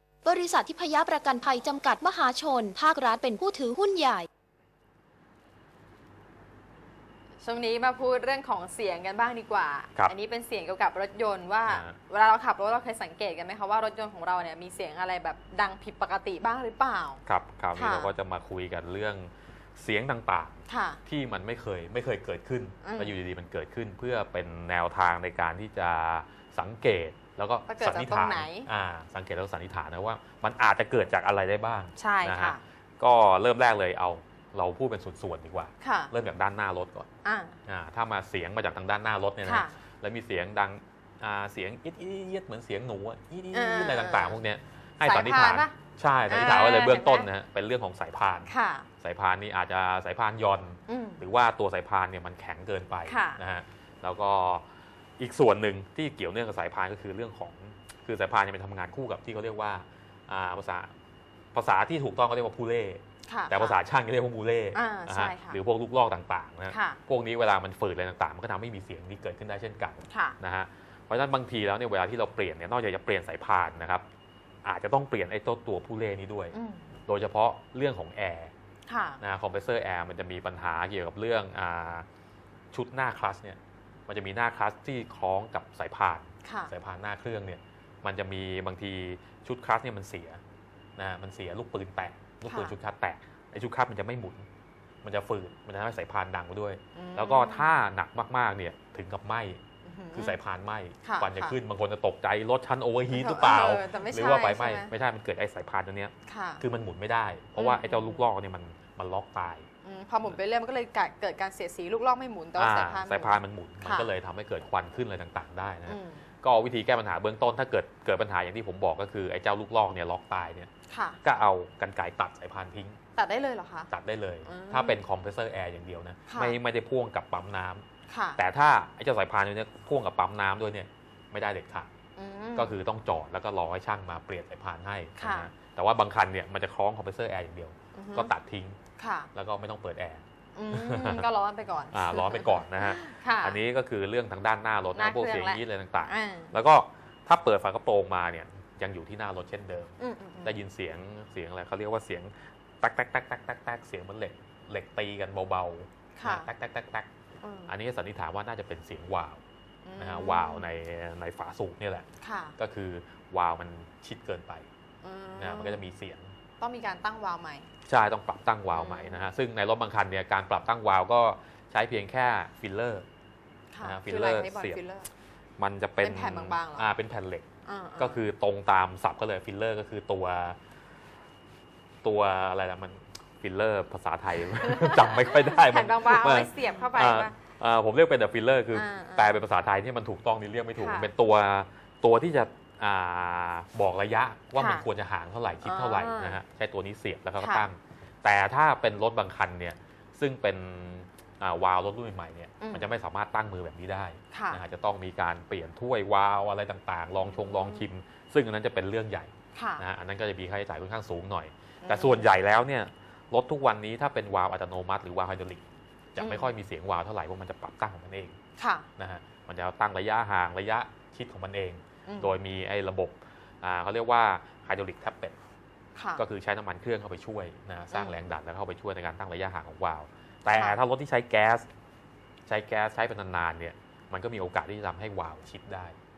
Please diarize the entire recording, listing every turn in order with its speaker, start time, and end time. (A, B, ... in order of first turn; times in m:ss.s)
0:00.2-0:04.3 A
0:07.4-0:17.2 B
0:11.7-0:12.0 C
0:17.3-0:37.1 C
0:17.8-0:18.1 B
0:20.7-0:21.0 B
0:22.8-0:23.2 B
0:27.7-0:28.7 B
0:32.0-0:32.6 B
0:35.8-0:36.1 B
0:37.2-0:37.6 B
0:37.7-0:54.7 C
0:39.4-0:39.7 B
0:43.5-0:44.4 B
0:45.0-0:45.7 B
0:46.3-0:47.3 B
0:48.5-0:48.9 B
0:50.9-0:51.2 B
0:53.0-0:53.4 B
0:55.2-1:00.9 C
1:01.5-1:14.0 C
1:03.3-1:03.8 B
1:04.7-1:05.6 B
1:06.7-1:07.0 B
1:10.1-1:10.4 B
1:14.6-1:18.5 C
1:16.5-1:16.9 B
1:18.9-1:19.2 B
1:19.2-1:22.1 C
1:22.7-1:30.4 C
1:26.4-1:26.7 B
1:31.0-1:34.4 C
1:32.5-1:32.8 B
1:35.0-1:39.6 C
1:37.0-1:37.7 B
1:39.8-1:40.4 B
1:40.1-1:49.7 C
1:41.0-1:41.6 B
1:43.1-1:44.9 B
1:46.3-1:46.6 B
1:47.6-1:48.2 B
1:49.8-1:54.1 B
1:52.6-2:00.7 C
1:55.9-1:56.2 B
2:00.9-2:01.2 B
2:01.2-2:03.0 C
2:03.2-2:03.9 B
2:03.9-2:07.8 C
2:04.5-2:05.0 B
2:06.3-2:06.6 B
2:08.1-2:08.4 B
2:08.4-2:11.9 C
2:12.2-2:12.8 B
2:12.6-2:18.8 C
2:15.2-2:15.5 B
2:18.0-2:18.3 B
2:19.0-2:19.3 B
2:19.3-2:21.3 C
2:20.6-2:23.6 B
2:21.9-2:37.1 C
2:24.9-2:26.5 B
2:30.0-2:30.6 B
2:36.2-2:36.5 B
2:37.4-2:37.7 B
2:37.7-2:39.4 C
2:39.8-2:40.7 B
2:40.0-2:42.1 C
2:42.2-2:42.6 B
2:42.6-2:44.7 C
2:45.0-2:45.8 B
2:45.4-2:46.3 C
2:46.6-2:47.7 B
2:47.9-2:53.1 C
2:48.7-2:49.3 B
2:53.7-2:55.1 B
2:53.8-2:54.8 C
2:55.6-2:57.5 C
2:56.0-2:56.9 B
2:57.7-2:58.2 B
2:58.0-3:00.6 C
3:02.0-3:35.6 C
3:04.6-3:07.3 B
3:08.7-3:09.3 B
3:10.8-3:11.1 B
3:14.6-3:14.9 B
3:15.6-3:16.4 B
3:17.4-3:17.7 B
3:22.6-3:22.9 B
3:24.3-3:24.6 B
3:27.2-3:27.9 B
3:29.6-3:29.8 B
3:31.8-3:32.3 B
3:36.2-3:38.4 C
3:36.2-3:36.5 B
3:38.6-3:38.9 B
3:39.0-3:45.4 C
3:42.1-3:42.4 B
3:46.0-3:46.2 B
3:46.2-3:51.7 C
3:47.9-3:48.2 B
3:50.5-3:50.8 B
3:52.5-3:56.0 C